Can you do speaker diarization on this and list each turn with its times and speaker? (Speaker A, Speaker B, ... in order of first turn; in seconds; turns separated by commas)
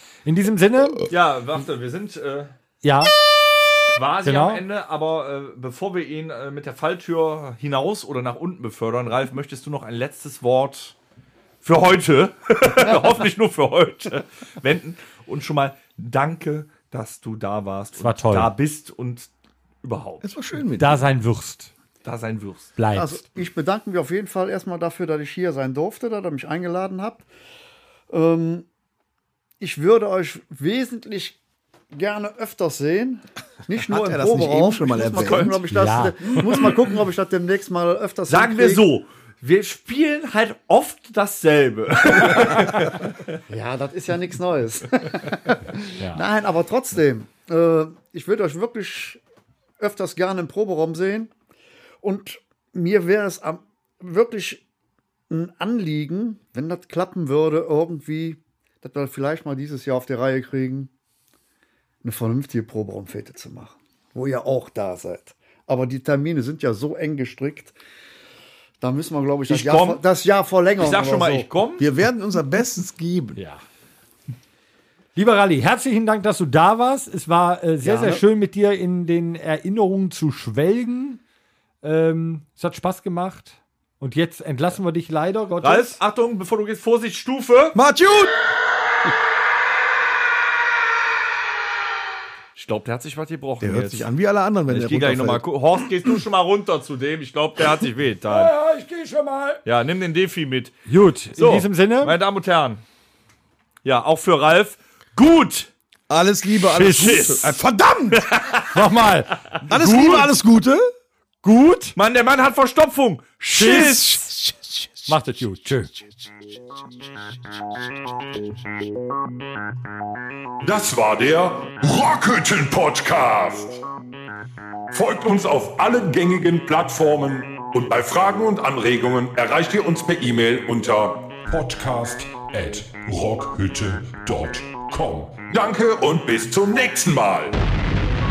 Speaker A: 0.2-1.1, Speaker B: 1.1-2.5, Speaker A: 2.8-3.1, Speaker B: 3.9-10.9, Speaker A: 4.2-4.6, Speaker B: 11.6-19.3, Speaker A: 18.0-18.5, Speaker B: 19.8-20.3, Speaker C: 20.2-21.0, Speaker A: 20.8-21.7, Speaker B: 22.0-22.7, Speaker A: 22.8-23.2, Speaker D: 22.9-27.2, Speaker D: 28.1-28.6, Speaker D: 29.6-31.4, Speaker D: 31.9-38.8, Speaker C: 33.9-35.6, Speaker B: 35.0-35.6, Speaker A: 35.7-36.3, Speaker B: 36.3-36.8, Speaker B: 38.3-43.2, Speaker D: 43.5-49.2, Speaker D: 49.8-51.3, Speaker D: 52.0-54.6, Speaker D: 55.3-60.9, Speaker D: 62.0-67.7, Speaker D: 68.8-71.5, Speaker B: 69.5-70.0, Speaker B: 70.8-71.8, Speaker C: 71.8-73.4, Speaker A: 73.3-73.6, Speaker A: 75.1-81.2, Speaker D: 77.8-78.2, Speaker A: 81.8-86.0, Speaker B: 85.6-87.8, Speaker C: 87.7-88.3, Speaker B: 92.5-94.1, Speaker C: 93.6-95.4, Speaker B: 94.7-98.5, Speaker A: 98.3-99.6, Speaker B: 99.6-100.8, Speaker A: 100.9-102.1, Speaker B: 101.3-102.8, Speaker B: 103.8-105.7, Speaker C: 106.1-108.3, Speaker A: 106.7-107.4, Speaker B: 106.8-107.6, Speaker B: 108.1-108.8, Speaker A: 108.7-110.3, Speaker C: 109.7-110.8, Speaker A: 111.4-111.9, Speaker B: 111.9-114.2, Speaker A: 113.5-114.2, Speaker C: 113.5-115.0, Speaker A: 115.1-115.9, Speaker E: 120.6-123.8, Speaker E: 124.9-137.6